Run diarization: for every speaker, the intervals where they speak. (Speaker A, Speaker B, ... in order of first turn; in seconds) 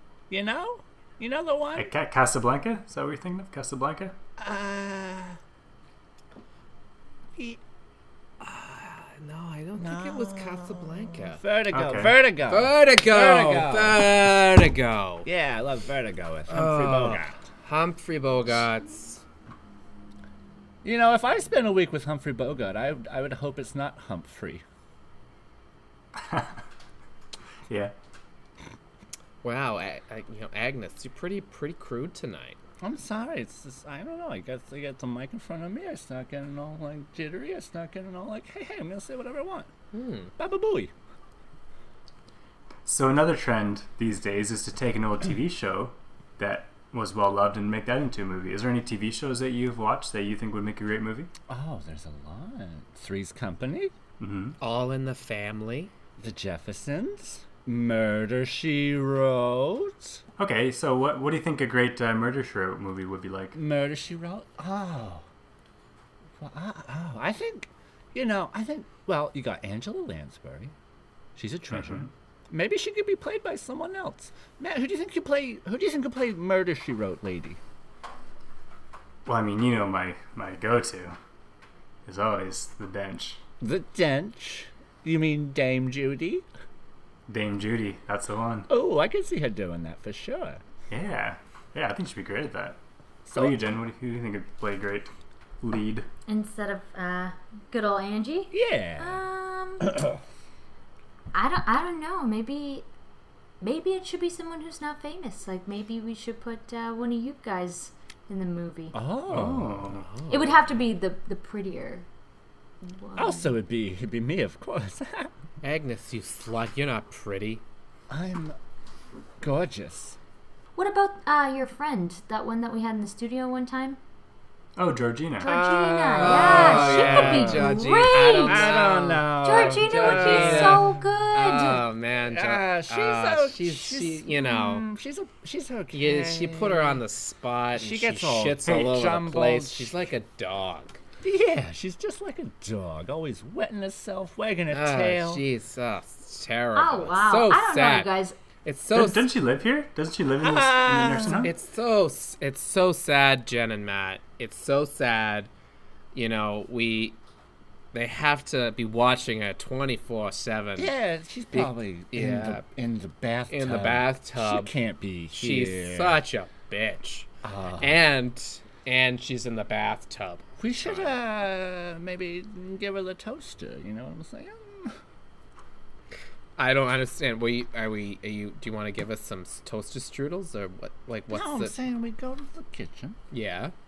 Speaker A: 0.3-1.9, 4.4-5.4, 9.8-14.1, 15.2-17.4, 20.8-24.6, 32.8-39.7, 40.4-40.9, 51.5-53.9, 56.2-60.2, 63.5-65.2, 66.4-70.7, 71.4-77.6, 83.6-86.4, 88.7-90.6, 93.3-93.6, 98.5-99.2, 108.9-110.0, 113.2-115.3, 118.1-118.6, 119.4-120.2, 125.4-130.9, 132.2-137.0, 137.7-139.9, 141.2-145.4, 150.4-151.5, 160.8-166.2, 167.4-168.0, 170.6-174.9, 181.3-183.2
Speaker B: 1.8-4.2, 11.7-12.1, 26.2-26.6, 27.7-27.9, 42.9-51.3, 54.2-54.6, 60.4-63.6, 71.7-72.1, 79.3-81.2, 82.1-83.4, 87.3-88.7, 90.9-92.8, 93.3-96.1, 109.3-110.1, 124.8-125.5, 138.6-138.9, 148.9-151.5
Speaker C: 8.4-11.4, 12.5-15.2, 16.5-19.2, 29.4-32.6, 39.9-40.3, 54.6-55.9, 109.8-110.7, 115.6-117.6, 126.2-134.8, 135.9-141.0, 144.7-148.1, 148.6-149.3, 151.4-155.5, 156.1-157.2, 157.9-160.9, 161.5-162.6, 163.5-164.7, 165.3-171.1, 176.6-181.7, 183.3-183.7
Speaker D: 96.3-100.0, 101.3-102.9, 103.6-109.0, 110.3-112.1, 112.8-113.6, 120.8-124.0, 125.4-128.7, 129.4-131.9, 146.8-148.4